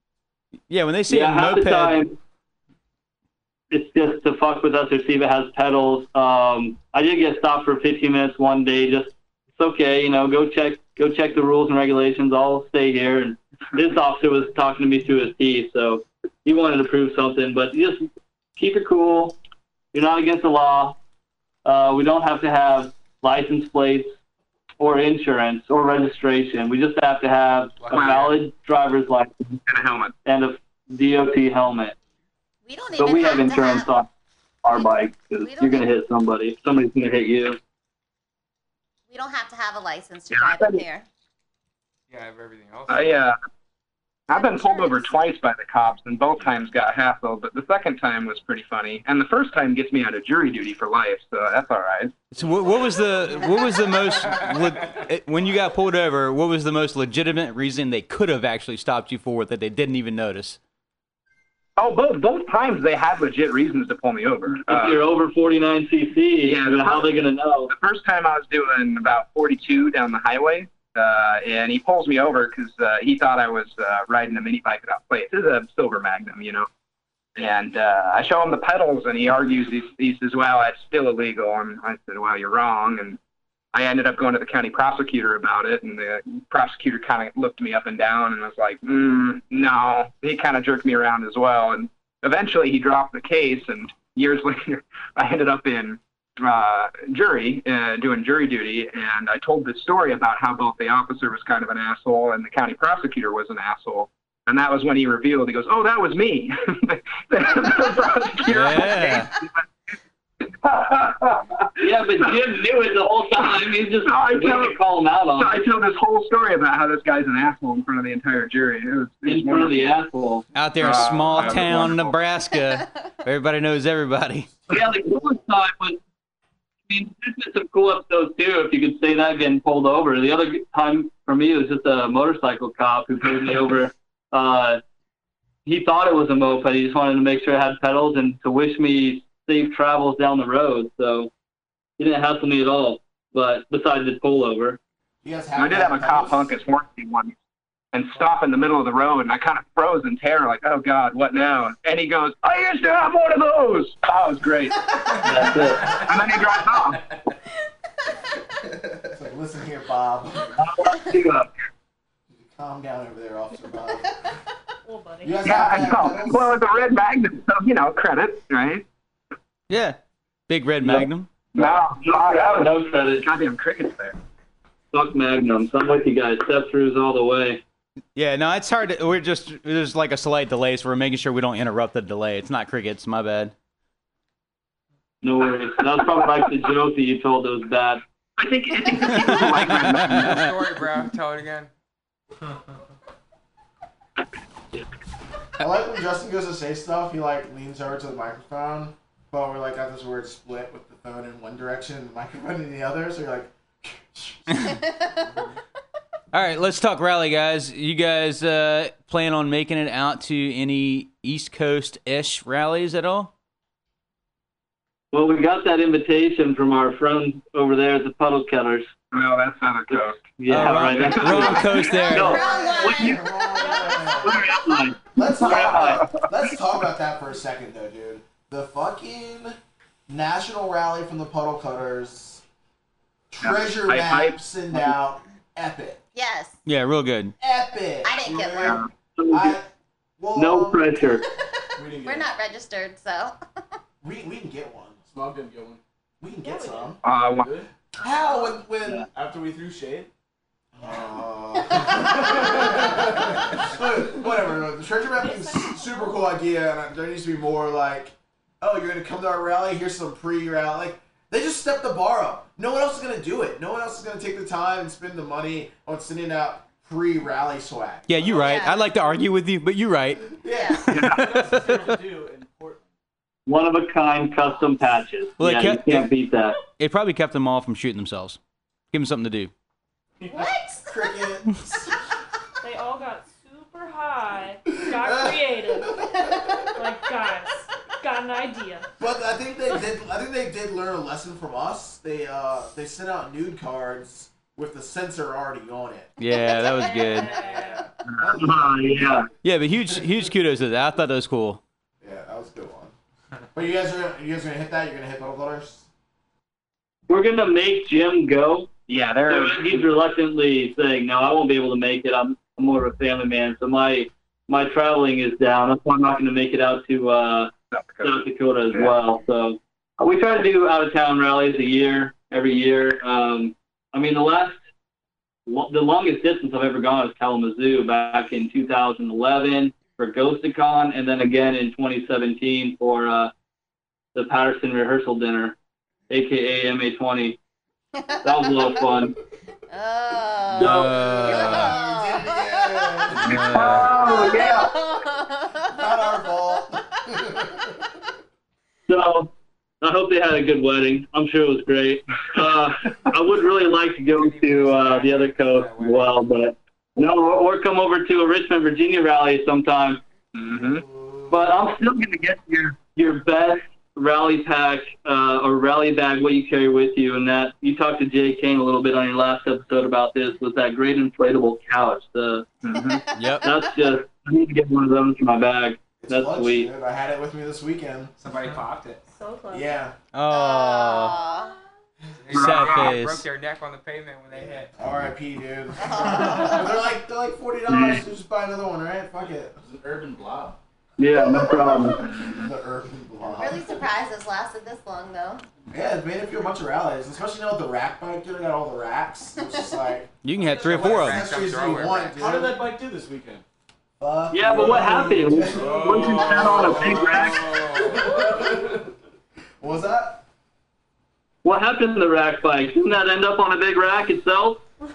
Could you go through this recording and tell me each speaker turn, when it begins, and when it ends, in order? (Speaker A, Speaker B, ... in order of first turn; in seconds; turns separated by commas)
Speaker A: 0.7-2.0, Speaker B: 1.1-2.1, Speaker B: 3.7-19.4, Speaker B: 19.9-21.0, Speaker B: 21.6-24.1, Speaker B: 24.8-29.6, Speaker C: 27.8-28.3, Speaker D: 27.9-28.4, Speaker D: 29.7-30.1, Speaker B: 30.2-31.9, Speaker E: 32.6-33.9, Speaker B: 33.0-34.1, Speaker B: 34.6-37.6, Speaker E: 34.7-35.9, Speaker E: 39.1-41.0, Speaker D: 40.3-40.8, Speaker C: 42.1-43.3, Speaker D: 42.9-43.4, Speaker D: 44.3-52.2, Speaker E: 44.3-45.2, Speaker A: 52.3-60.6, Speaker C: 54.1-55.0, Speaker D: 61.8-65.0, Speaker B: 64.5-67.7, Speaker D: 66.4-76.7, Speaker D: 77.3-83.2, Speaker D: 83.7-109.6, Speaker A: 108.5-109.3, Speaker D: 110.5-112.4, Speaker B: 111.8-115.6, Speaker D: 113.6-114.8, Speaker D: 115.3-120.0, Speaker B: 119.2-120.5, Speaker A: 120.5-124.5, Speaker D: 120.8-122.1, Speaker B: 124.7-126.0, Speaker B: 126.9-134.8, Speaker B: 135.6-141.3, Speaker B: 142.0-144.8, Speaker F: 145.2-146.5, Speaker D: 145.6-147.3, Speaker D: 147.9-157.0, Speaker B: 155.2-155.9, Speaker F: 159.1-160.6, Speaker B: 160.6-161.5, Speaker F: 162.3-164.2, Speaker G: 164.8-165.9, Speaker F: 165.2-166.6, Speaker D: 165.4-168.8, Speaker A: 169.7-171.3, Speaker B: 170.8-173.3, Speaker D: 171.5-174.2, Speaker B: 174.9-177.6, Speaker A: 178.1-183.5, Speaker B: 185.2-188.0, Speaker D: 188.4-190.5, Speaker A: 189.1-190.5, Speaker C: 190.1-191.7, Speaker F: 195.6-204.8, Speaker A: 206.3-213.3, Speaker B: 215.1-218.9, Speaker D: 219.1-222.0, Speaker B: 220.4-223.2, Speaker A: 220.5-222.4, Speaker E: 221.9-223.7, Speaker F: 222.0-224.5, Speaker G: 223.5-224.3, Speaker B: 223.9-226.1, Speaker F: 225.1-229.6, Speaker D: 225.8-226.1, Speaker F: 230.1-232.4, Speaker F: 233.3-236.0, Speaker D: 233.4-234.4, Speaker E: 236.1-236.6, Speaker A: 236.7-237.3, Speaker F: 237.4-238.8, Speaker E: 238.0-238.8, Speaker D: 238.6-238.9, Speaker B: 239.2-239.6, Speaker F: 239.3-241.2, Speaker B: 240.3-241.2, Speaker H: 241.8-242.3, Speaker E: 242.0-243.3, Speaker F: 244.0-245.0, Speaker H: 245.1-245.8, Speaker F: 246.2-247.0, Speaker G: 246.4-246.9, Speaker D: 247.0-247.5, Speaker H: 247.3-247.7, Speaker F: 248.0-249.0, Speaker H: 249.1-250.1, Speaker F: 250.7-268.6, Speaker H: 251.8-253.8, Speaker G: 255.2-256.2, Speaker A: 268.1-270.3, Speaker E: 268.2-269.1, Speaker F: 270.3-271.0, Speaker E: 270.5-270.8, Speaker A: 270.9-271.9, Speaker H: 271.0-272.9, Speaker B: 273.5-276.6, Speaker A: 275.4-276.1, Speaker A: 276.8-278.4, Speaker A: 278.9-279.5, Speaker H: 280.2-280.5, Speaker E: 280.3-281.1, Speaker F: 280.8-282.0, Speaker G: 282.6-286.1, Speaker F: 284.7-286.6, Speaker G: 286.7-288.9, Speaker F: 289.0-296.1, Speaker A: 296.2-297.3, Speaker E: 296.3-297.2, Speaker G: 296.5-297.9, Speaker F: 297.3-299.2, Speaker B: 298.4-299.3, Speaker A: 299.4-301.6, Speaker F: 302.0-302.9, Speaker F: 303.5-305.9, Speaker B: 307.1-308.7, Speaker D: 308.9-309.9, Speaker B: 309.3-317.5, Speaker D: 317.7-318.9, Speaker B: 318.0-324.6, Speaker B: 325.5-333.3, Speaker B: 334.1-335.5, Speaker B: 336.1-337.4, Speaker B: 338.2-339.1, Speaker E: 339.7-343.1, Speaker A: 340.5-341.7, Speaker B: 340.6-340.9, Speaker F: 340.9-344.7, Speaker A: 343.2-343.9, Speaker B: 343.4-344.6, Speaker D: 343.5-343.9, Speaker E: 343.8-346.5, Speaker F: 345.6-347.8, Speaker B: 348.9-349.3, Speaker B: 349.8-360.0, Speaker C: 354.1-356.1, Speaker D: 360.3-360.8, Speaker F: 360.5-361.5, Speaker B: 361.3-372.4, Speaker D: 372.6-373.1, Speaker A: 373.1-373.5, Speaker B: 373.4-376.7, Speaker F: 376.0-378.1, Speaker C: 378.2-379.0, Speaker G: 379.1-379.8, Speaker F: 379.5-379.9, Speaker A: 380.1-381.2, Speaker E: 380.3-381.6, Speaker C: 382.2-384.7, Speaker A: 382.3-383.2, Speaker F: 384.7-389.6, Speaker E: 385.8-386.7, Speaker B: 387.7-388.0, Speaker H: 389.6-390.6, Speaker B: 391.0-392.0, Speaker F: 391.1-393.7, Speaker E: 393.4-395.4, Speaker F: 395.7-402.6, Speaker A: 400.2-401.2, Speaker C: 400.4-402.2, Speaker H: 402.2-403.4, Speaker F: 404.0-406.9, Speaker B: 404.3-407.5, Speaker H: 405.5-408.7, Speaker C: 406.4-407.8, Speaker F: 407.6-408.8, Speaker F: 409.6-410.2, Speaker B: 411.4-414.6